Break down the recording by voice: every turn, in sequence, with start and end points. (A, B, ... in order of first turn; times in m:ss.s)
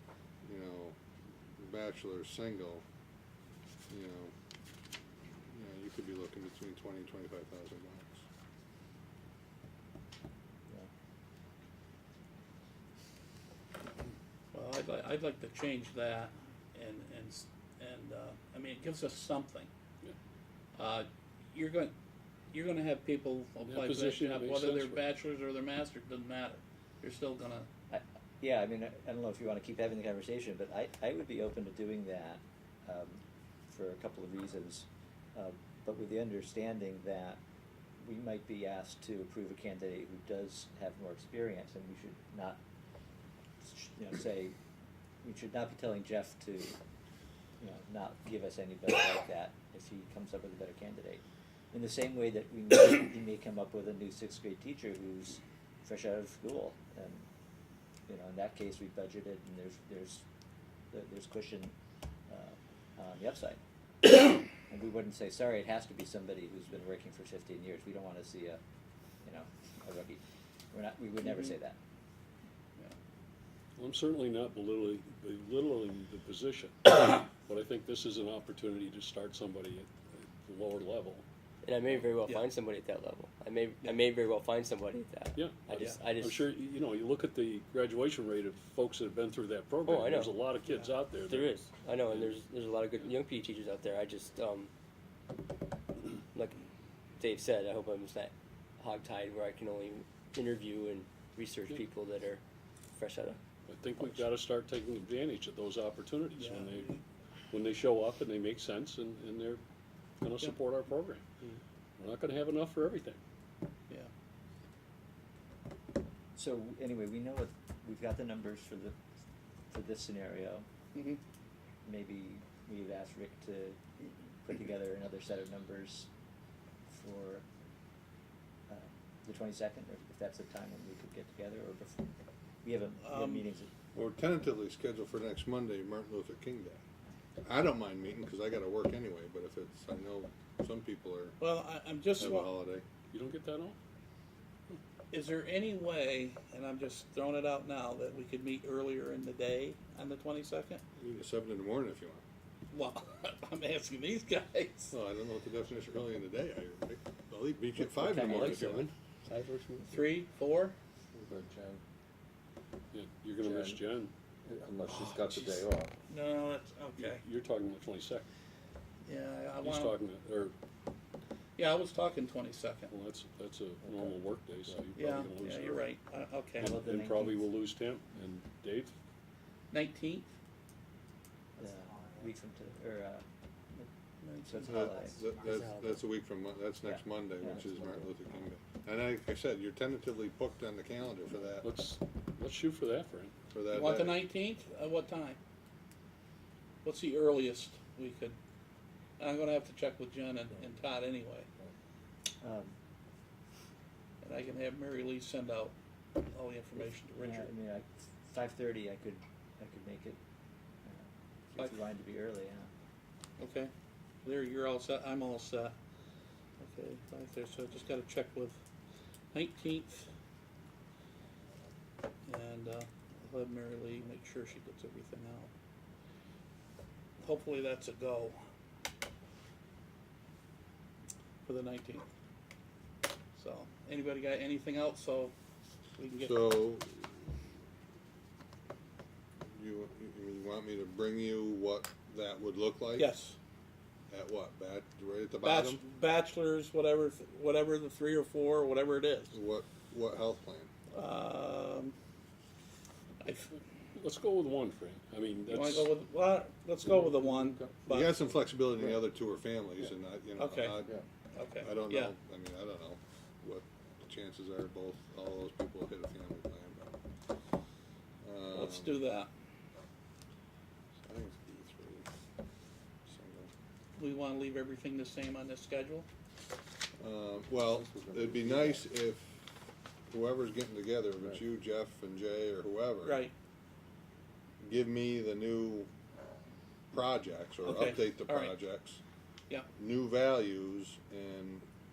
0:00.4-0:01.0 A
0:01.6-0:02.8 A
0:03.9-0:04.3 A
0:05.5-0:08.2 A
0:14.5-0:19.7 B
0:20.8-0:21.9 B
0:22.5-0:27.7 B
0:23.6-0:25.0 C
0:27.9-0:37.4 D
0:38.0-0:42.6 D
0:43.6-0:44.6 D
0:45.2-0:46.8 D
0:47.6-0:57.3 D
0:58.1-1:00.2 D
1:00.9-1:01.7 D
1:02.3-1:03.6 D
1:04.6-1:08.6 D
1:09.2-1:10.2 D
1:10.7-1:11.8 D
1:13.8-1:21.2 C
1:21.6-1:26.5 E
1:25.3-1:32.4 C
1:25.8-1:26.0 B
1:29.8-1:30.5 E
1:30.7-1:31.0 B
1:31.2-1:34.7 E
1:36.3-1:36.6 E
1:37.2-1:42.4 E
1:42.9-1:43.4 E
1:43.7-1:47.0 C
1:44.0-1:44.2 E
1:46.3-1:47.0 B
1:47.5-1:49.6 C
1:50.2-1:51.2 C
1:52.0-1:53.2 C
1:56.4-1:59.0 D
1:59.7-2:00.7 D
2:01.8-2:03.8 D
2:04.4-2:06.1 D
2:06.9-2:07.4 D
2:08.7-2:12.1 D
2:12.6-2:13.7 D
2:13.0-2:13.4 B
2:13.9-2:16.8 A
2:17.4-2:21.4 A
2:21.4-2:22.5 B
2:22.2-2:22.8 A
2:23.1-2:23.8 C
2:25.1-2:30.8 B
2:31.0-2:32.2 A
2:32.7-2:34.9 B
2:34.9-2:38.9 A
2:38.0-2:39.9 E
2:39.9-2:40.8 B
2:41.1-2:41.8 F
2:42.9-2:44.1 C
2:43.4-2:43.9 F
2:44.4-2:45.9 F
2:46.1-2:47.2 B
2:47.0-2:48.3 C
2:49.1-2:50.0 B
2:49.6-2:50.6 C
2:51.6-2:52.9 B
2:52.9-2:55.9 C
2:53.8-2:54.8 F
2:55.0-2:56.7 B
2:56.6-2:57.5 D
2:56.6-2:59.0 C
2:59.7-3:00.3 B
3:01.6-3:03.2 D
3:03.8-3:05.3 D
3:04.2-3:04.6 B
3:04.6-3:11.7 A
3:06.8-3:08.0 D
3:11.6-3:13.4 C
3:13.5-3:14.2 A
3:13.7-3:15.4 B
3:16.8-3:18.4 B
3:19.2-3:21.5 B
3:22.4-3:22.8 D
3:24.2-3:27.5 B
3:26.8-3:30.2 D
3:30.8-3:32.7 D
3:33.4-3:33.7 B
3:34.2-3:35.8 B
3:36.6-3:38.6 B
3:39.3-3:40.1 B
3:42.3-3:45.5 B
3:47.2-3:48.4 B
3:51.4-3:52.1 B
3:53.4-3:55.3 B
3:56.0-3:56.6 B
3:56.2-3:57.1 A
3:59.6-4:03.2 A
4:03.0-4:03.4 B
4:04.1-4:05.8 A
4:05.4-4:09.3 B
4:09.3-4:10.7 A
4:10.9-4:11.9 B
4:13.2-4:13.5 B
4:13.5-4:15.9 C
4:15.5-4:18.1 B
4:16.8-4:17.8 F
4:17.9-4:21.0 A
4:18.7-4:19.0 F
4:20.4-4:20.8 B
4:20.8-4:21.1 F
4:21.3-4:22.1 B
4:21.6-4:27.0 A
4:28.2-4:29.0 A
4:28.5-4:29.3 B
4:31.0-4:32.1 A
4:33.1-4:33.5 A
4:34.0-4:36.1 B
4:37.0-4:39.5 A
4:37.7-4:38.8 F
4:40.1-4:43.2 A
4:43.0-4:43.3 B
4:44.6-4:45.9 A
4:46.9-4:49.0 A
4:47.6-4:48.5 B
4:49.8-4:51.7 A